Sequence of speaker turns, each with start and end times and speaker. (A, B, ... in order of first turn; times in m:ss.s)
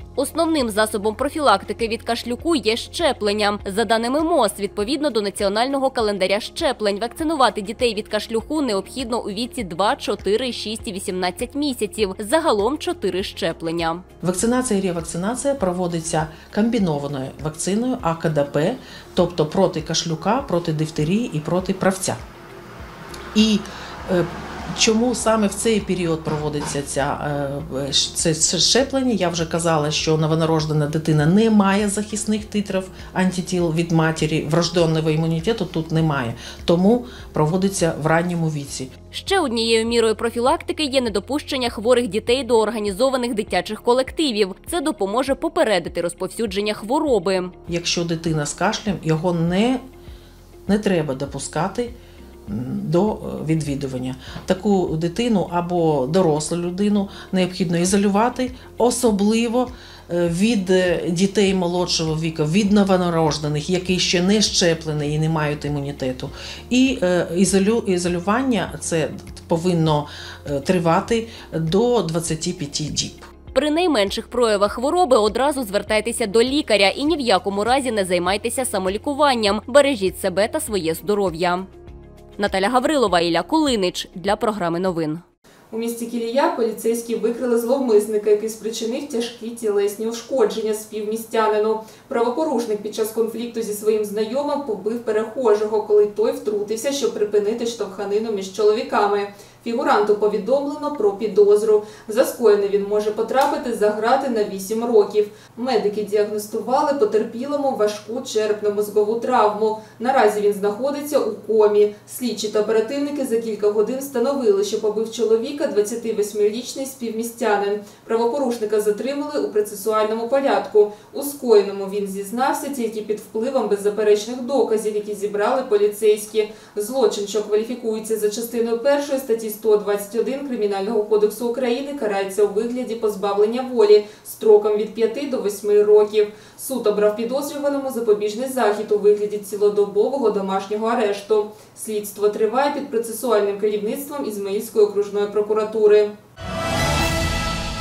0:00.2-0:14.0 A
0:14.2-0:22.2 B
0:23.4-0:38.9 B
0:39.1-0:47.5 A
0:47.7-0:49.8 B
0:50.7-0:51.9 B
0:52.5-1:13.3 B
1:13.6-1:21.7 A
1:22.4-1:25.2 A
1:25.7-2:26.1 C